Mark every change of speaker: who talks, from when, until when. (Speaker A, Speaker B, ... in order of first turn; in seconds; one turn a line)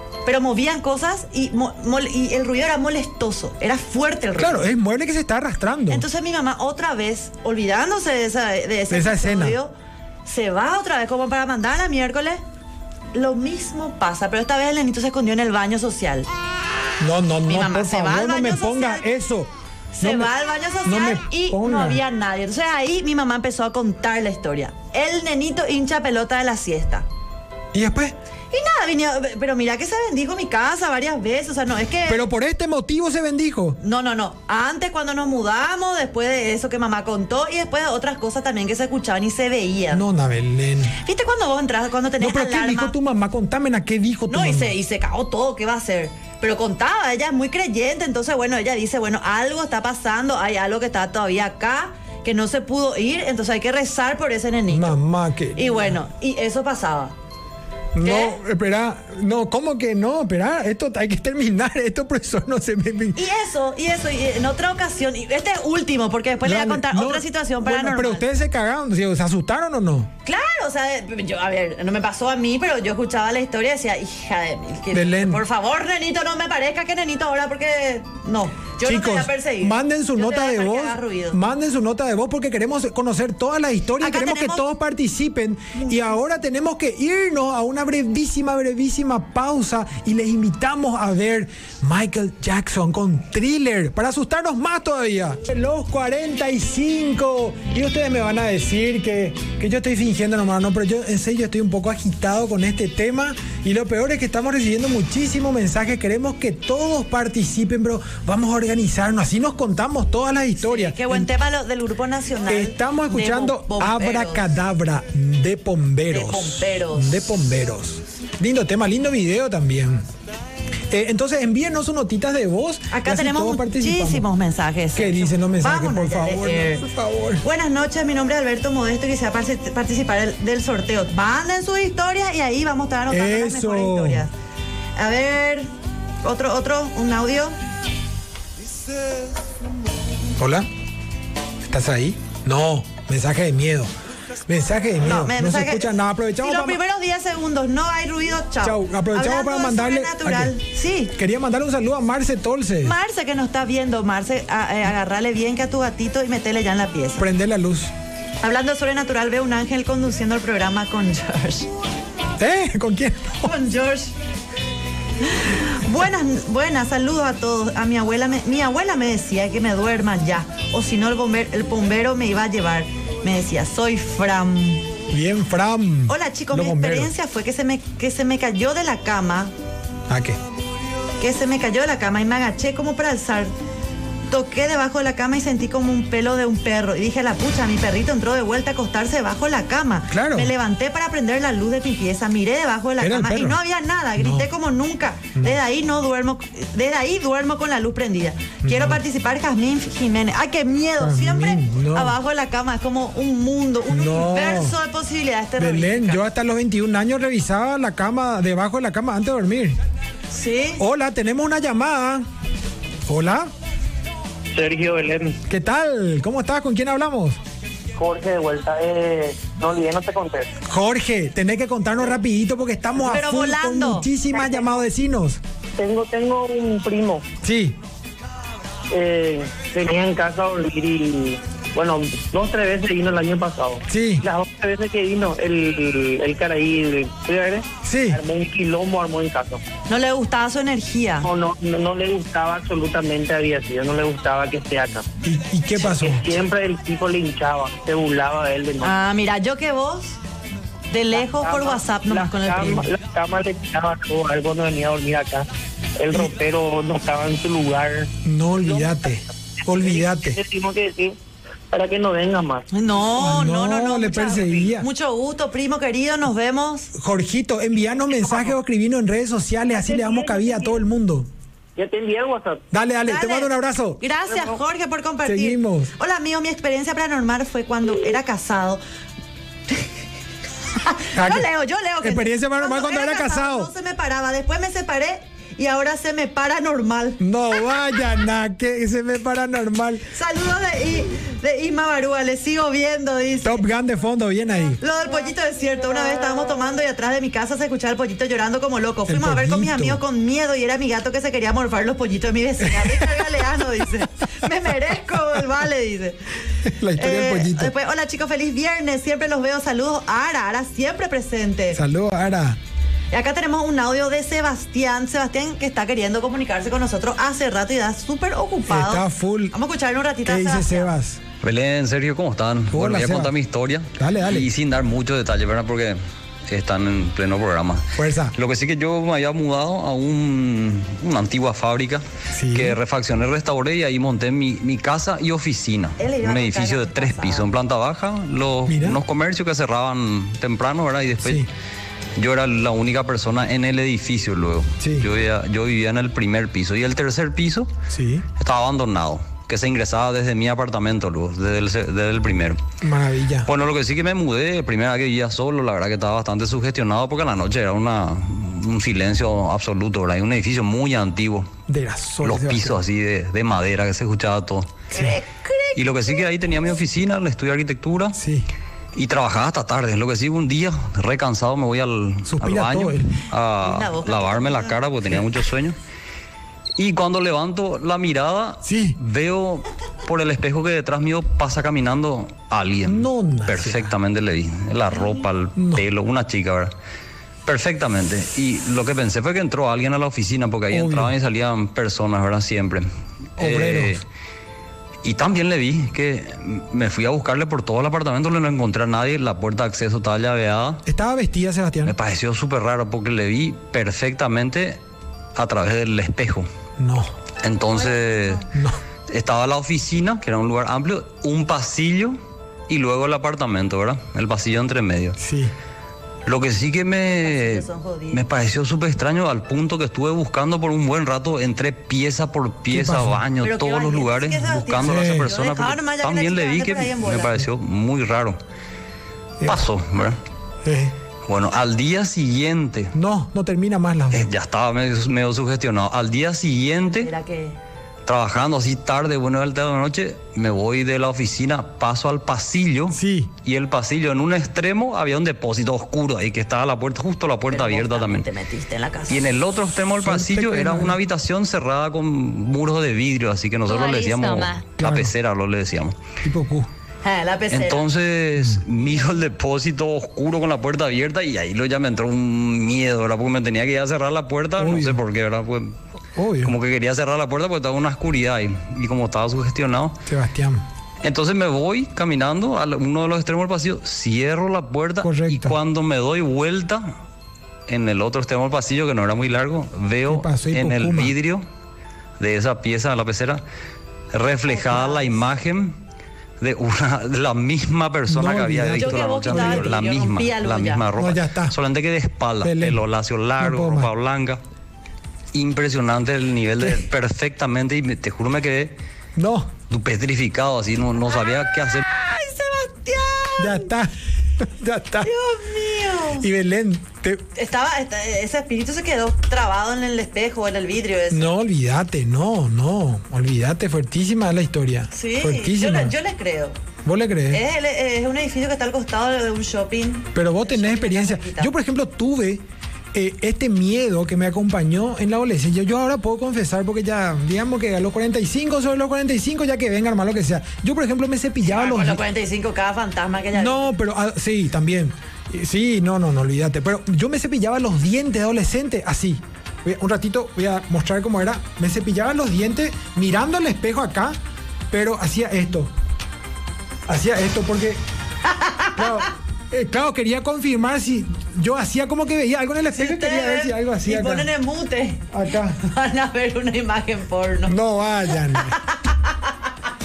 Speaker A: 0.2-4.7
Speaker B: 4.4-6.0
Speaker A: 5.9-9.7
Speaker B: 8.9-9.6
Speaker A: 10.2-12.4
Speaker A: 13.1-16.3
Speaker B: 17.0-19.5
Speaker A: 17.4-19.1
Speaker A: 19.9-27.1
Speaker B: 20.0-20.3
Speaker B: 20.8-22.0
Speaker B: 27.7-28.1
Speaker A: 28.5-32.3
Speaker B: 32.1-33.8
Speaker A: 33.8-40.0
Speaker B: 39.9-41.0
Speaker A: 40.9-42.9
Speaker B: 42.2-44.7
Speaker A: 44.3-55.0
Speaker B: 54.7-55.9
Speaker A: 55.5-57.1
Speaker B: 57.9-63.2
Speaker A: 58.0-58.4
Speaker A: 63.1-68.2
Speaker B: 66.4-70.1
Speaker A: 70.2-81.4
Speaker B: 74.9-75.4
Speaker B: 78.8-111.3
Speaker A: 84.0-84.6
Speaker A: 85.8-86.1
Speaker A: 110.6-114.5
Speaker B: 112.5-120.0
Speaker A: 116.1-117.3
Speaker B: 120.9-124.2
Speaker A: 122.9-126.8
Speaker B: 124.9-127.4
Speaker A: 127.4-134.3
Speaker B: 133.1-134.3
Speaker A: 134.9-135.7
Speaker A: 136.2-137.6
Speaker B: 140.4-140.7
Speaker B: 141.6-143.9
Speaker B: 144.5-146.8
Speaker A: 145.0-151.1
Speaker B: 148.6-150.6
Speaker B: 151.1-152.9
Speaker A: 152.8-157.3
Speaker B: 157.2-157.9
Speaker A: 158.4-161.7
Speaker B: 162.4-163.5
Speaker A: 163.4-164.1
Speaker A: 165.2-174.9
Speaker B: 175.1-177.1
Speaker A: 176.1-179.5
Speaker B: 180.1-180.4
Speaker A: 181.2-183.5
Speaker A: 184.3-206.2
Speaker B: 190.1-190.5
Speaker B: 193.0-193.6
Speaker B: 194.2-194.5
Speaker B: 198.6-199.0
Speaker B: 201.0-202.2
Speaker B: 203.9-204.7
Speaker B: 205.6-209.8
Speaker A: 210.3-210.8
Speaker B: 210.8-212.2
Speaker B: 213.1-213.5
Speaker C: 214.5-215.4
Speaker B: 215.5-217.4
Speaker C: 218.0-220.5
Speaker B: 220.7-225.4
Speaker A: 223.0-224.7
Speaker C: 225.8-227.2
Speaker B: 227.4-227.8
Speaker C: 228.9-239.6
Speaker B: 233.9-234.2
Speaker B: 237.8-238.2
Speaker A: 239.9-241.3
Speaker C: 241.2-245.0
Speaker B: 245.2-246.3
Speaker C: 245.8-248.9
Speaker A: 248.8-250.2
Speaker A: 250.9-252.9
Speaker C: 251.2-261.2
Speaker B: 258.2-260.4
Speaker C: 261.7-262.7
Speaker A: 262.7-266.9
Speaker B: 263.1-264.9
Speaker B: 266.9-271.3
Speaker C: 269.7-270.8
Speaker C: 271.8-272.6
Speaker B: 272.7-274.0
Speaker A: 273.0-278.8
Speaker B: 275.2-275.9
Speaker A: 280.7-287.8
Speaker B: 281.1-281.5
Speaker B: 282.0-283.7
Speaker B: 287.2-290.1
Speaker A: 290.1-293.6
Speaker B: 293.4-294.8
Speaker A: 294.8-306.2
Speaker B: 299.1-300.0
Speaker B: 306.6-307.7
Speaker A: 306.9-311.8
Speaker B: 311.7-312.6
Speaker A: 313.1-320.9
Speaker B: 318.7-319.5
Speaker B: 320.2-321.2
Speaker D: 321.4-341.4
Speaker B: 322.7-323.3
Speaker B: 323.9-324.5
Speaker B: 327.9-328.3
Speaker B: 332.3-332.8
Speaker A: 336.0-337.5
Speaker B: 338.7-339.0
Speaker B: 341.2-341.5
Speaker D: 342.2-347.7
Speaker B: 344.8-345.1
Speaker B: 347.9-348.2
Speaker D: 348.4-352.6
Speaker B: 352.8-353.5
Speaker D: 353.4-361.5
Speaker B: 361.7-362.8
Speaker D: 362.2-364.8
Speaker B: 364.9-365.2
Speaker A: 364.9-366.3
Speaker D: 365.8-368.2
Speaker B: 368.1-368.5
Speaker D: 368.9-375.8
Speaker B: 372.3-373.2
Speaker A: 373.6-374.8
Speaker D: 376.8-386.7
Speaker B: 378.6-379.0
Speaker B: 382.8-383.9
Speaker B: 385.6-385.8
Speaker D: 387.4-392.9
Speaker B: 390.7-391.1
Speaker B: 393.4-394.0
Speaker D: 393.4-394.0
Speaker D: 395.0-400.8
Speaker B: 400.8-401.9
Speaker D: 401.8-404.8
Speaker D: 405.3-406.5
Speaker B: 406.8-407.1
Speaker D: 407.4-408.4
Speaker A: 407.7-408.4
Speaker B: 408.5-408.8
Speaker D: 409.1-415.2
Speaker B: 415.2-415.5
Speaker D: 416.2-428.4
Speaker A: 417.0-418.2
Speaker B: 422.7-423.2
Speaker A: 423.4-427.4
Speaker B: 424.8-425.3
Speaker D: 429.4-430.2
Speaker B: 430.6-430.9
Speaker D: 431.3-432.9
Speaker B: 432.9-434.3
Speaker D: 434.1-437.1
Speaker A: 437.0-437.6
Speaker D: 438.1-448.3
Speaker B: 442.9-443.3
Speaker A: 447.5-449.3
Speaker D: 449.1-456.0
Speaker B: 450.0-451.0
Speaker A: 453.7-454.6
Speaker B: 454.8-455.1
Speaker B: 456.2-456.7
Speaker A: 457.0-457.9
Speaker D: 457.5-465.7
Speaker B: 464.6-465.0
Speaker B: 466.1-466.5
Speaker D: 466.4-470.0
Speaker B: 470.1-470.6
Speaker D: 471.0-476.9
Speaker B: 475.0-475.6
Speaker D: 477.7-481.4
Speaker B: 480.1-481.1
Speaker D: 482.2-483.4
Speaker D: 484.1-485.8
Speaker A: 484.5-485.2
Speaker D: 486.4-494.4
Speaker B: 488.1-489.7
Speaker A: 488.8-490.9
Speaker B: 491.0-491.6
Speaker B: 492.4-492.8
Speaker B: 493.4-493.9
Speaker D: 495.3-498.7
Speaker B: 499.1-499.5
Speaker D: 499.7-501.8
Speaker A: 501.1-503.7
Speaker B: 503.4-505.1
Speaker A: 505.0-506.3
Speaker B: 506.2-507.2
Speaker A: 507.3-511.3
Speaker B: 511.1-515.9
Speaker A: 514.9-516.6
Speaker B: 516.8-517.4
Speaker A: 517.3-521.5
Speaker B: 520.1-522.4
Speaker B: 522.9-532.0
Speaker A: 531.4-533.7
Speaker B: 533.3-544.2
Speaker B: 544.7-545.7
Speaker B: 546.9-547.8
Speaker A: 548.2-549.1
Speaker B: 548.7-554.3
Speaker A: 552.7-557.6
Speaker B: 555.1-555.6
Speaker B: 557.5-558.6
Speaker A: 558.2-559.3